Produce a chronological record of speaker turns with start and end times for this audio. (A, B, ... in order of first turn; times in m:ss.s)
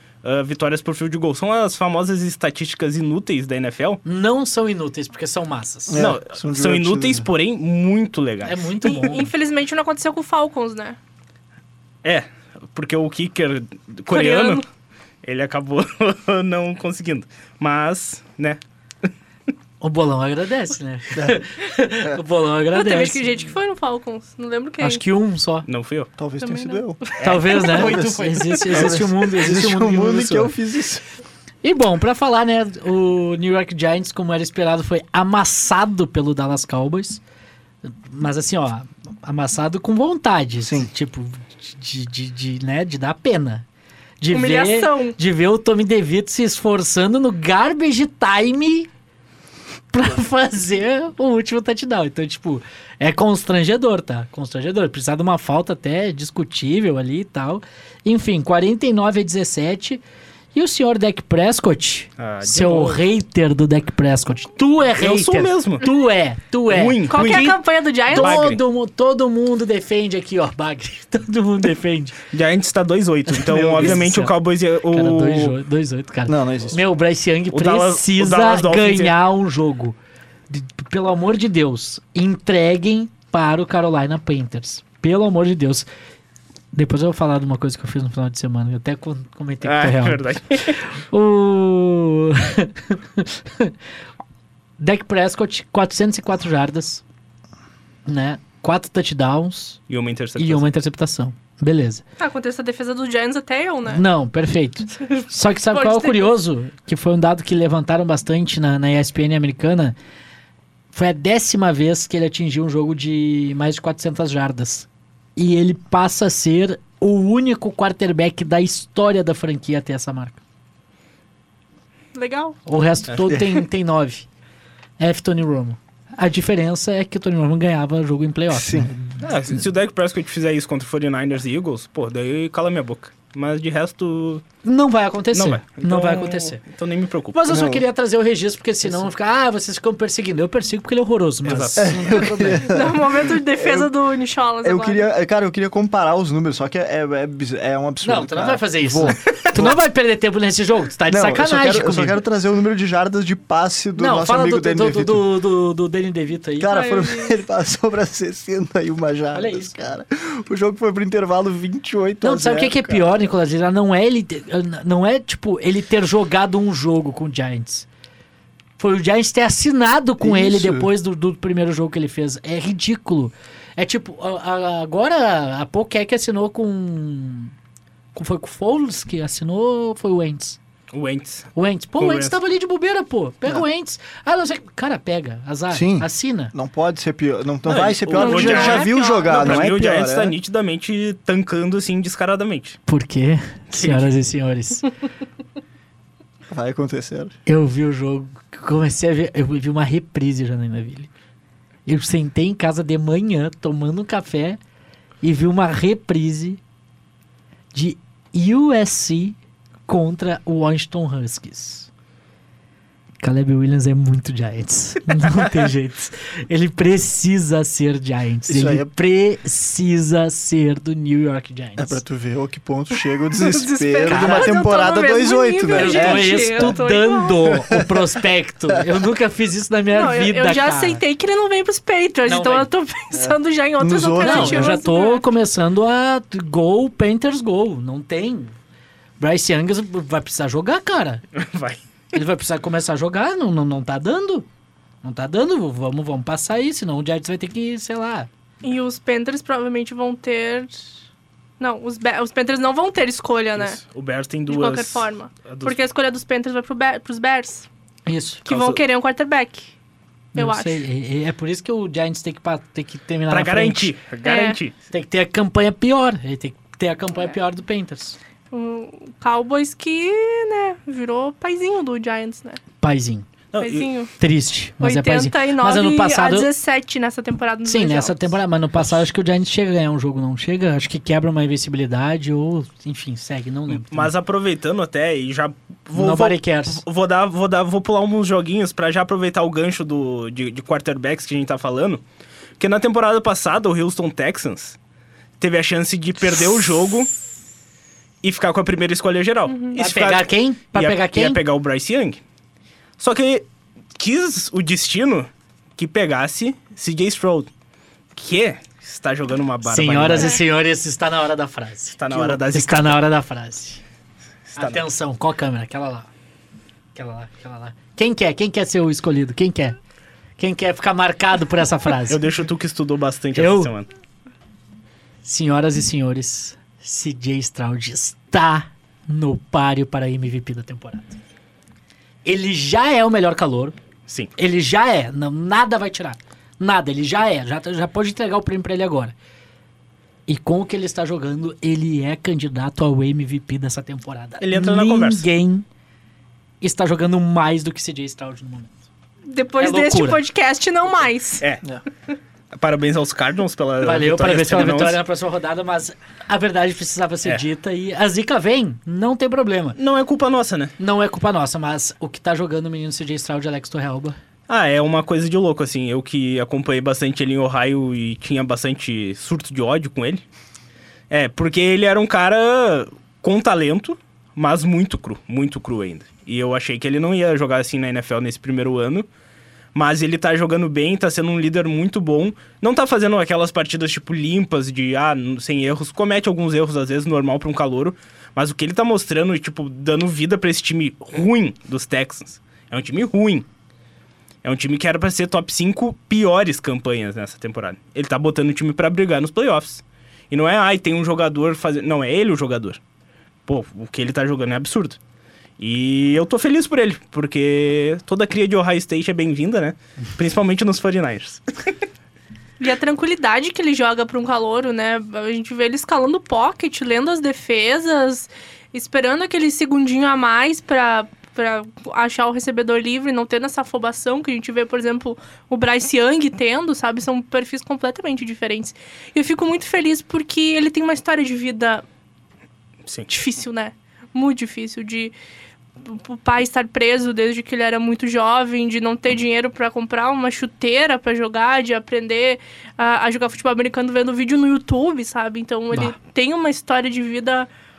0:00.2-0:04.0 A
0:04.0-0:06.0 B
0:05.9-0:07.3 C
0:06.0-0:08.9 A
0:08.4-0:09.3 B
0:08.8-0:11.0 D
0:12.0-0:14.6 A
0:14.1-0:14.6 D
0:15.2-0:18.6 A
0:19.8-0:23.5 B
0:22.7-0:25.0 D
0:24.8-0:25.7 B
0:25.7-0:26.1 A
0:26.2-0:27.1 C
0:26.4-0:27.2 D
0:27.2-0:29.1 A
0:27.2-0:30.5 B
0:27.7-0:31.0 C
0:31.6-0:37.2 B
0:38.1-0:43.7 B
0:40.6-0:40.9 C
0:44.2-0:48.9 B
0:44.3-0:45.2 D
0:49.9-1:00.0 B
1:00.5-1:07.6 B
1:02.2-1:03.0 A
1:05.0-1:05.9 A
1:06.7-1:07.6 A
1:07.1-1:08.4 D
1:08.1-1:12.2 B
1:08.1-1:08.6 A
1:12.3-1:15.6 A
1:13.3-1:14.3 B
1:14.9-1:20.0 B
1:16.3-1:16.8 C
1:17.5-1:19.2 A
1:20.5-1:25.9 B
1:26.7-1:33.7 B
1:29.6-1:30.8 A
1:34.8-1:37.0 B
1:38.1-1:39.8 B
1:39.9-1:40.7 A
1:40.4-1:42.0 B
1:42.2-1:44.0 D
1:43.9-1:50.0 B
1:45.7-1:46.3 D
1:50.9-2:00.4 B
2:02.1-2:02.6 D
2:02.7-2:04.3 B
2:05.0-2:09.3 B
2:08.5-2:08.9 C
2:09.2-2:14.4 A
2:14.6-2:16.6 B
2:15.3-2:17.4 A
2:17.3-2:22.7 B
2:17.5-2:17.8 C
2:21.4-2:22.0 A
2:21.8-2:23.9 C
2:22.7-2:25.1 D
2:24.6-2:29.8 C
2:28.0-2:32.2 B
2:31.1-2:35.3 C
2:34.0-2:36.8 B
2:36.6-2:43.3 C
2:36.7-2:37.4 D
2:39.3-2:39.8 B
2:42.2-2:47.9 B
2:48.8-2:57.5 B
2:50.2-2:50.9 C
2:58.2-3:00.6 B
3:00.9-3:02.4 A
3:01.6-3:06.5 B
3:05.7-3:10.4 C
3:07.7-3:12.8 A
3:08.2-3:09.6 D
3:12.9-3:14.9 B
3:13.7-3:14.1 A
3:16.5-3:17.3 C
3:17.5-3:21.1 B
3:21.9-3:24.6 B
3:25.2-3:26.6 B
3:27.7-3:31.9 B
3:33.2-3:42.0 B
3:38.5-3:38.9 C
3:41.8-3:46.8 C
3:43.4-3:47.4 D
3:44.0-3:44.5 B
3:45.7-3:51.0 B
3:47.5-3:47.9 C
3:49.9-3:55.2 D
3:52.2-3:52.7 B
3:53.1-3:54.8 C
3:54.2-3:58.6 B
3:59.2-4:01.2 B
4:01.4-4:01.8 A
4:02.1-4:04.5 B
4:05.0-4:08.3 B
4:08.6-4:10.8 D
4:11.6-4:13.8 D
4:13.6-4:15.8 A
4:14.5-4:17.7 D
4:18.1-4:18.5 B
4:18.5-4:19.7 D
4:18.5-4:18.8 A
4:20.4-4:20.8 D
4:20.4-4:23.9 B
4:23.3-4:24.8 A
4:24.2-4:24.6 D
4:24.9-4:28.2 B
4:28.5-4:32.6 D
4:32.8-4:33.3 B
4:33.5-4:33.9 A
4:33.6-4:34.1 D
4:34.2-4:36.5 B
4:34.8-4:38.4 D
4:37.6-4:44.1 B
4:43.7-4:52.0 A
4:45.9-4:46.8 B
4:52.6-4:54.8 A
4:55.4-4:57.1 A
4:58.2-5:02.2 A
4:59.5-4:59.8 D
4:59.8-5:01.4 B
5:03.0-5:03.4 A
5:04.0-5:07.5 A
5:08.2-5:10.4 A
5:09.6-5:13.8 B
5:12.0-5:13.0 A
5:14.5-5:14.8 A
5:14.6-5:16.1 B
5:17.0-5:19.8 B
5:20.4-5:22.2 B
5:22.1-5:23.9 A
5:23.4-5:23.7 B
5:25.2-5:31.2 B
5:32.2-5:33.8 B
5:34.4-5:39.2 B
5:40.3-5:45.7 B
5:44.4-5:45.3 A
5:46.6-5:48.8 B
5:49.3-5:51.4 D
5:49.6-5:50.2 B
5:52.5-5:55.0 A
5:53.8-5:59.8 B
5:59.8-6:00.7 A
6:00.8-6:04.2 B
6:04.5-6:10.2 A
6:11.1-6:19.1 A
6:19.7-6:33.5 A
6:34.4-6:42.8 A
6:43.5-6:45.0 A
6:45.6-6:51.7 A
6:52.6-7:11.8 D
7:13.1-7:15.1 D
7:15.8-7:27.5 D